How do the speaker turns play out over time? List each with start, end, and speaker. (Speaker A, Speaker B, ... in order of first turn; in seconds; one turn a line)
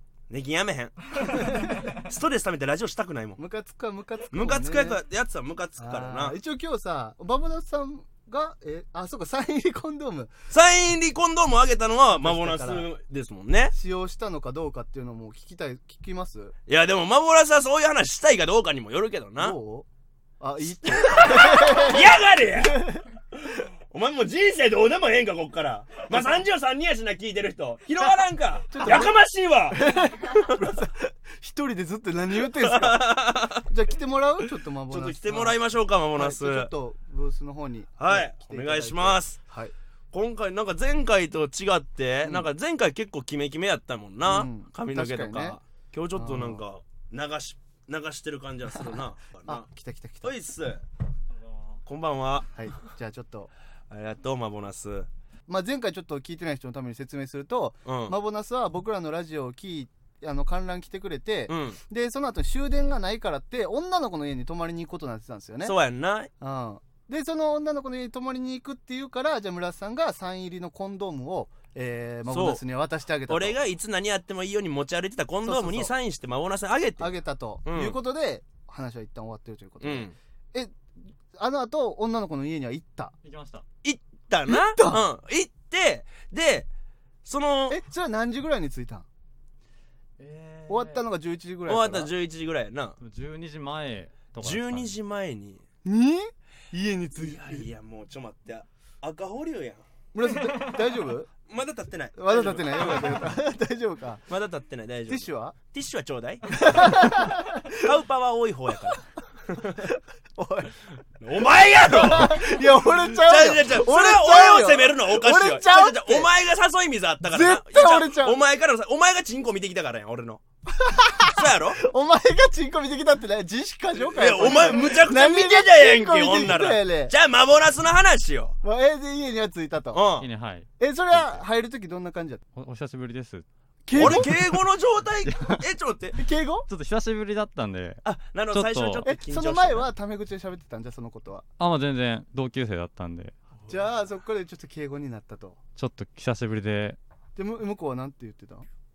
Speaker A: 0.3-3.4
Speaker B: 1.3-1.8
Speaker B: 3.4-5.0
Speaker A: 4.3-6.3
Speaker B: 5.8-10.3
Speaker A: 10.5-13.7
Speaker B: 12.2-12.9
Speaker B: 13.7-16.5
Speaker A: 16.7-19.6
Speaker B: 19.4-19.9
Speaker B: 20.4-23.0
Speaker A: 20.7-30.6
Speaker B: 28.7-29.2
Speaker B: 29.7-35.6
Speaker A: 32.4-33.7
Speaker A: 34.9-36.7
Speaker B: 36.1-39.7
Speaker A: 38.0-39.4
Speaker A: 40.1-49.6
Speaker B: 44.2-45.6
Speaker B: 46.1-46.6
Speaker B: 49.4-50.3
Speaker A: 50.2-50.8
Speaker A: 51.9-52.5
Speaker B: 52.5-53.5
Speaker A: 53.9-55.1
Speaker B: 55.5-65.7
Speaker A: 57.8-58.1
Speaker A: 61.5-61.8
Speaker A: 65.6-66.3
Speaker B: 66.4-73.6
Speaker A: 72.3-72.6
Speaker A: 73.3-77.1
Speaker B: 75.4-75.9
Speaker B: 77.0-80.8
Speaker A: 77.6-78.0
Speaker A: 79.8-80.1
Speaker B: 81.3-83.1
Speaker C: 83.2-83.6
Speaker A: 83.8-86.7
Speaker B: 84.5-85.0
Speaker A: 87.2-87.8
Speaker B: 87.7-89.0
Speaker C: 90.2-91.0
Speaker B: 90.7-92.1
Speaker A: 91.7-93.0
Speaker C: 93.0-94.9
Speaker A: 94.4-95.6
Speaker B: 95.8-97.7
Speaker A: 97.2-99.8
Speaker B: 100.1-101.3
Speaker A: 101.5-103.3
Speaker B: 102.2-104.2
Speaker A: 104.3-109.9
Speaker B: 105.1-105.5
Speaker B: 106.5-107.9
Speaker B: 109.7-110.7
Speaker A: 111.2-120.4
Speaker B: 111.8-116.3
Speaker B: 117.3-118.4
Speaker B: 120.7-127.1
Speaker A: 121.2-121.8
Speaker A: 124.0-128.6
Speaker B: 128.6-130.0
Speaker A: 129.9-130.3
Speaker C: 130.2-131.4
Speaker B: 130.8-132.4
Speaker C: 132.6-133.4
Speaker B: 133.8-134.5
Speaker A: 133.9-136.2
Speaker C: 133.9-134.4
Speaker C: 135.2-135.6
Speaker B: 136.2-136.7
Speaker C: 136.7-139.1
Speaker A: 138.0-139.9
Speaker B: 139.1-141.4
Speaker C: 141.6-143.3
Speaker B: 143.7-145.6
Speaker C: 145.8-147.0
Speaker B: 147.3-148.7